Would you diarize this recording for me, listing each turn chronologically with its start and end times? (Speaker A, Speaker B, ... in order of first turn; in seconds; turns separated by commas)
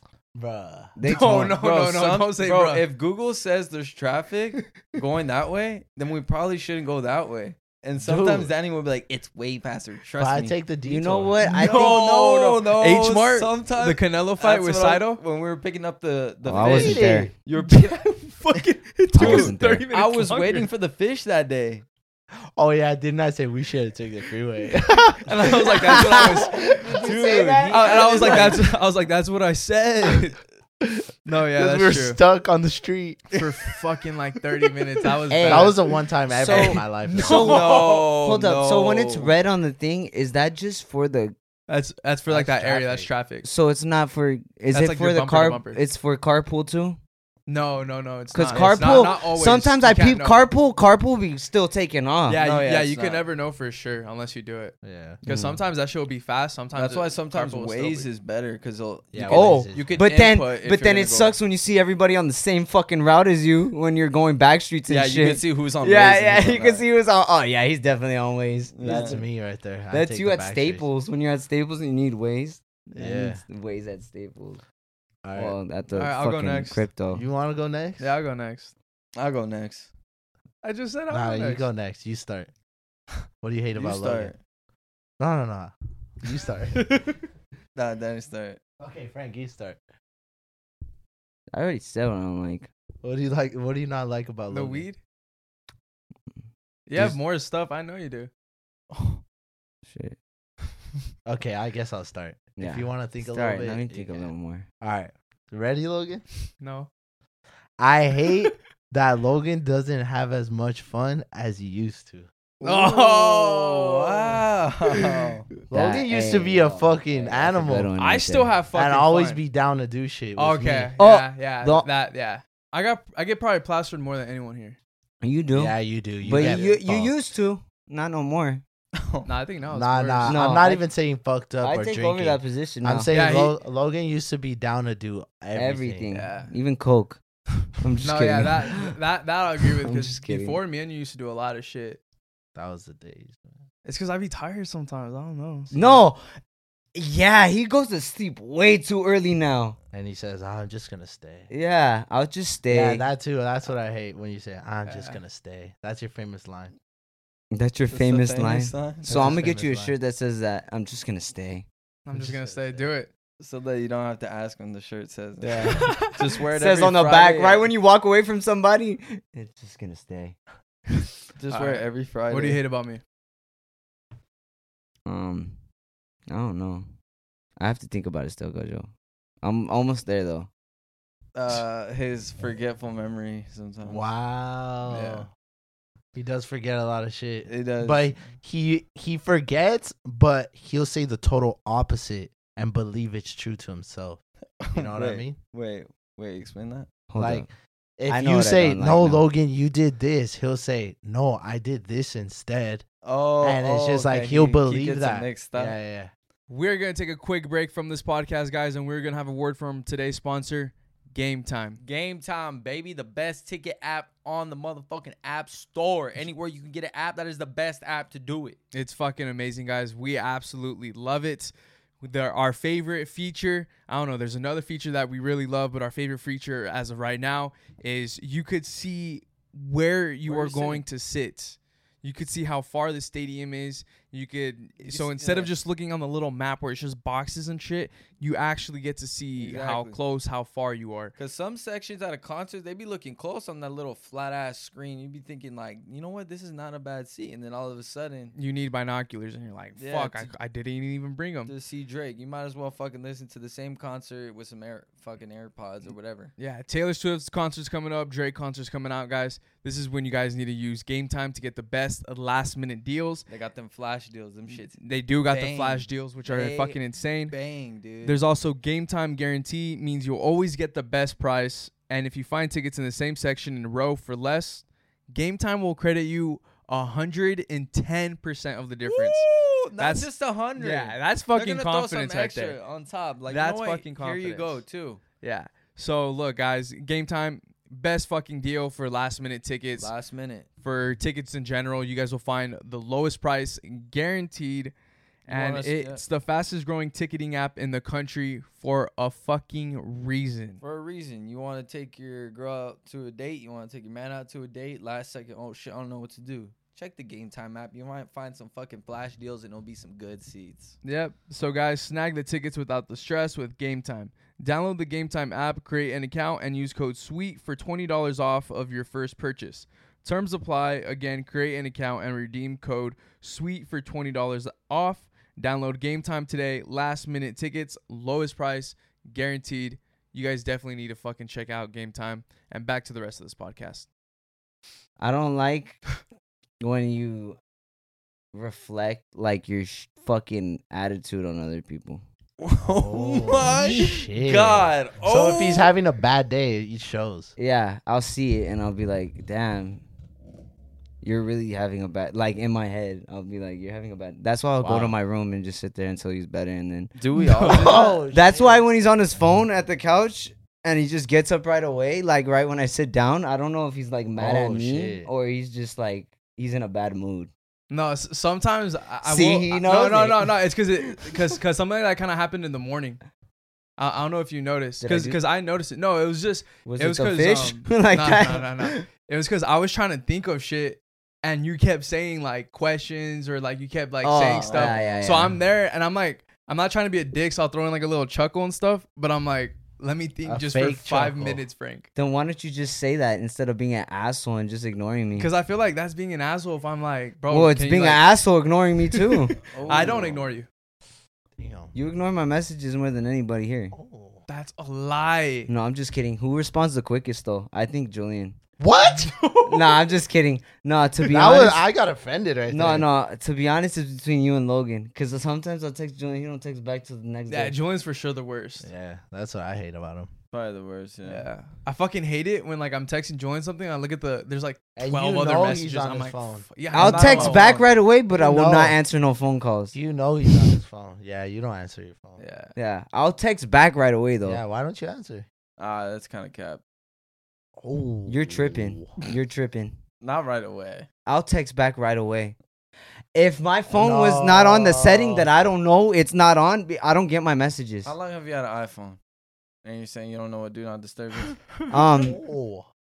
Speaker A: 0.3-0.9, Speaker B: 1.0-1.6, Speaker C: 1.0-2.8, Speaker D: 1.5-10.6, Speaker A: 8.0-8.5, Speaker A: 10.2-11.4, Speaker B: 10.9-12.0, Speaker C: 11.4-15.2, Speaker D: 11.5-18.0, Speaker B: 16.4-17.3, Speaker A: 16.6-17.3, Speaker C: 17.6-20.7, Speaker B: 19.1-19.9, Speaker D: 19.2-21.9, Speaker A: 22.6-27.1, Speaker C: 25.2-26.6, Speaker B: 25.9-28.6, Speaker D: 26.9-28.7, Speaker C: 27.7-30.4, Speaker A: 30.8-33.3, Speaker C: 31.2-32.2, Speaker C: 33.3-35.8, Speaker B: 35.3-35.8, Speaker A: 35.4-37.6, Speaker B: 36.3-41.4, Speaker D: 36.5-39.3, Speaker C: 37.3-37.5, Speaker C: 41.7-43.5, Speaker A: 42.3-43.1, Speaker B: 43.4-47.0, Speaker C: 44.7-45.8, Speaker C: 47.5-50.5, Speaker B: 48.3-52.4, Speaker D: 48.5-49.2, Speaker C: 52.3-58.1, Speaker D: 52.4-53.2, Speaker A: 54.8-55.2, Speaker B: 55.3-55.6, Speaker D: 56.8-61.4, Speaker A: 59.1-60.0, Speaker B: 59.3-69.3, Speaker D: 64.9-66.8, Speaker D: 68.7-69.2, Speaker A: 68.8-70.9, Speaker B: 69.9-74.6, Speaker A: 73.0-73.4, Speaker A: 75.2-75.6, Speaker B: 75.4-77.2, Speaker C: 75.9-76.8, Speaker A: 77.1-78.2, Speaker C: 78.0-78.7, Speaker D: 79.2-79.9, Speaker C: 80.6-81.7, Speaker A: 81.1-82.5, Speaker A: 83.4-84.3, Speaker D: 83.8-84.4, Speaker A: 85.2-86.9, Speaker C: 86.7-87.2, Speaker D: 87.8-88.6, Speaker A: 88.8-89.8, Speaker B: 91.5-92.7, Speaker A: 93.0-94.9, Speaker C: 94.5-95.0, Speaker C: 96.9-98.3, Speaker B: 99.9-100.2, Speaker A: 101.3-106.2, Speaker B: 102.6-104.7, Speaker C: 106.6-106.9, Speaker A: 107.8-112.3, Speaker C: 112.6-114.4, Speaker D: 112.6-115.5, Speaker C: 115.0-115.2, Speaker A: 115.7-117.9, Speaker B: 115.7-118.5, Speaker C: 118.0-119.4, Speaker A: 118.7-120.9, Speaker C: 120.4-124.8, Speaker B: 121.0-121.9, Speaker B: 125.2-128.6, Speaker A: 125.5-127.2, Speaker D: 128.9-129.3, Speaker C: 129.3-130.4, Speaker A: 129.7-136.1, Speaker B: 130.2-130.8, Speaker B: 131.6-133.1, Speaker C: 133.1-133.6, Speaker B: 135.5-137.2, Speaker C: 136.1-136.5, Speaker B: 137.8-139.0, Speaker C: 138.0-142.0, Speaker B: 139.6-140.6, Speaker A: 142.6-143.5, Speaker C: 143.8-145.7, Speaker B: 145.7-146.2, Speaker B: 146.9-149.8, Speaker A: 149.9-151.5, Speaker B: 151.5-153.1, Speaker A: 152.7-156.7, Speaker C: 154.8-155.2, Speaker B: 157.5-161.7, Speaker D: 157.9-159.5, Speaker A: 159.1-159.9, Speaker C: 162.1-163.1, Speaker A: 162.1-162.9, Speaker D: 163.4-167.7, Speaker B: 165.4-165.9, Speaker C: 165.7-166.2, Speaker B: 166.5-170.4, Speaker D: 171.4-172.6, Speaker C: 171.5-173.0, Speaker B: 175.1-175.6, Speaker B: 176.3-176.9, Speaker B: 177.6-178.9, Speaker B: 179.4-180.5, Speaker D: 181.3-184.0, Speaker A: 183.8-185.3, Speaker C: 184.9-185.2, Speaker A: 186.2-194.2, Speaker D: 187.5-188.1, Speaker D: 194.6-196.9, Speaker A: 194.7-195.4, Speaker B: 197.1-197.5, Speaker A: 197.2-202.8, Speaker B: 198.1-199.2, Speaker D: 203.0-205.8, Speaker A: 203.4-206.1, Speaker C: 206.5-211.8, Speaker D: 211.8-218.6, Speaker C: 218.7-241.1, Speaker D: 230.3-230.8, Speaker D: 234.8-235.5, Speaker D: 239.4-240.0, Speaker D: 241.2-248.3, Speaker C: 248.3-251.5, Speaker D: 249.8-250.3, Speaker D: 251.5-256.3, Speaker C: 256.4-263.3, Speaker D: 263.3-268.2, Speaker C: 264.7-267.4, Speaker C: 268.0-279.3, Speaker D: 278.9-285.0, Speaker C: 279.8-282.6, Speaker C: 283.3-284.6, Speaker C: 285.2-289.9, Speaker D: 289.8-290.5, Speaker C: 290.6-294.7, Speaker D: 295.3-296.0, Speaker C: 295.3-300.6, Speaker D: 300.6-310.8, Speaker C: 310.8-333.9, Speaker B: 335.0-335.8, Speaker B: 336.6-337.4, Speaker B: 338.3-342.0, Speaker D: 342.4-345.7, Speaker A: 342.7-347.3, Speaker B: 347.4-349.8, Speaker B: 351.0-356.9, Speaker A: 354.6-354.9, Speaker D: 357.0-358.0, Speaker C: 357.2-357.7, Speaker B: 357.5-367.3, Speaker A: 357.5-358.7, Speaker A: 364.2-365.1, Speaker C: 367.7-373.0, Speaker B: 369.0-371.2, Speaker C: 373.8-391.9, Speaker B: 374.8-375.2, Speaker B: 376.6-378.9, Speaker B: 384.0-385.4, Speaker D: 384.4-385.2, Speaker A: 390.2-391.4, Speaker B: 391.9-395.3, Speaker C: 395.2-398.0, Speaker B: 397.3-399.4, Speaker C: 398.9-400.5, Speaker D: 399.5-400.3, Speaker A: 401.4-401.7, Speaker B: 401.7-403.8, Speaker A: 403.7-404.2, Speaker C: 404.3-405.5, Speaker B: 405.5-408.4, Speaker A: 408.6-409.1, Speaker C: 408.8-409.8, Speaker B: 409.4-411.6, Speaker A: 411.0-412.9, Speaker B: 412.5-417.6, Speaker C: 417.3-418.7, Speaker A: 418.6-420.1, Speaker D: 420.3-421.3, Speaker C: 421.1-427.5, Speaker A: 424.8-426.5, Speaker B: 426.7-429.8, Speaker D: 426.7-427.7, Speaker A: 428.1-428.8, Speaker A: 429.7-432.2, Speaker C: 432.2-432.5, Speaker B: 432.6-434.4, Speaker A: 434.2-435.3, Speaker D: 435.6-436.6, Speaker A: 437.6-439.0, Speaker B: 438.1-439.8, Speaker D: 440.0-440.9, Speaker B: 441.1-442.4, Speaker B: 443.1-447.9, Speaker A: 443.7-445.3, Speaker D: 447.9-449.0, Speaker D: 449.6-451.4, Speaker B: 451.7-452.2, Speaker A: 452.0-452.7